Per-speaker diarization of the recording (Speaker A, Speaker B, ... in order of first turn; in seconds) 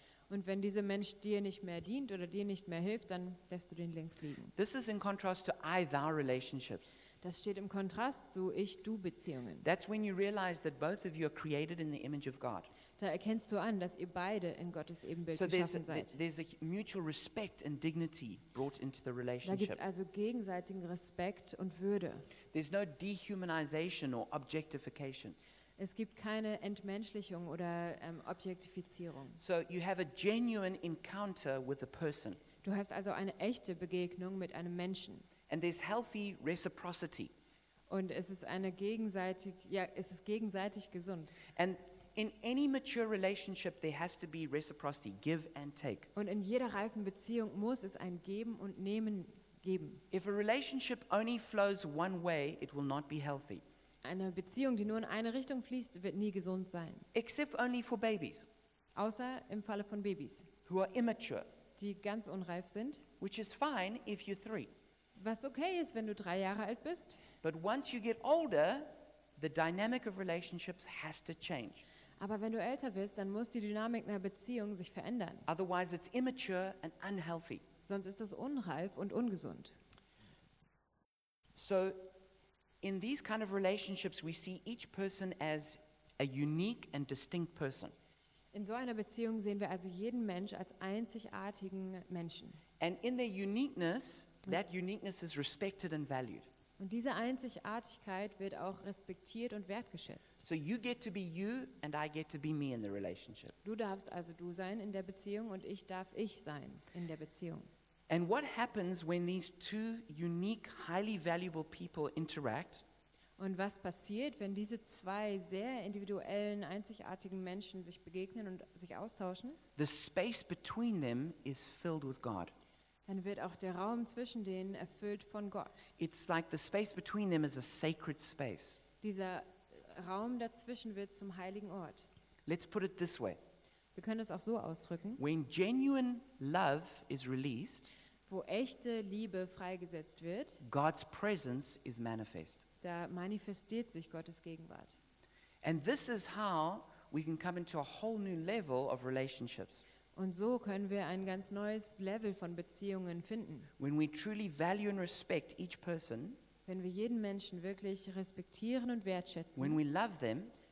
Speaker A: 0.3-4.5, 7.2-9.7, 13.0-16.2, 19.4-22.3, 25.8-29.4, 32.6-35.3, 37.9-41.4, 46.1-50.0, 54.0-57.1, 59.0-60.5, 61.8-63.1, 65.2-67.2, 72.2-75.5, 77.8-79.8, 88.5-92.6, 96.8-100.4, 103.6-107.7, 113.4-119.6, 123.1-125.9, 129.0-132.1, 133.9-135.2, 138.3-140.6, 142.8-145.0, 150.2-153.7, 156.7-159.8
Speaker B: 4.6-7.0, 9.6-12.7, 15.3-19.8, 22.5-25.4, 29.4-32.4, 35.5-37.3, 41.5-46.1, 50.1-53.6, 57.1-58.5, 60.7-61.5, 63.2-64.7, 67.4-71.8, 75.5-77.6, 81.5-82.1, 82.8-87.9, 92.8-96.5, 100.4-103.6, 108.1-112.8, 119.8-122.5, 126.0-128.8, 132.5-133.4, 135.2-137.9, 140.6-142.7, 145.6-149.8, 153.8-156.4, 159.6-160.5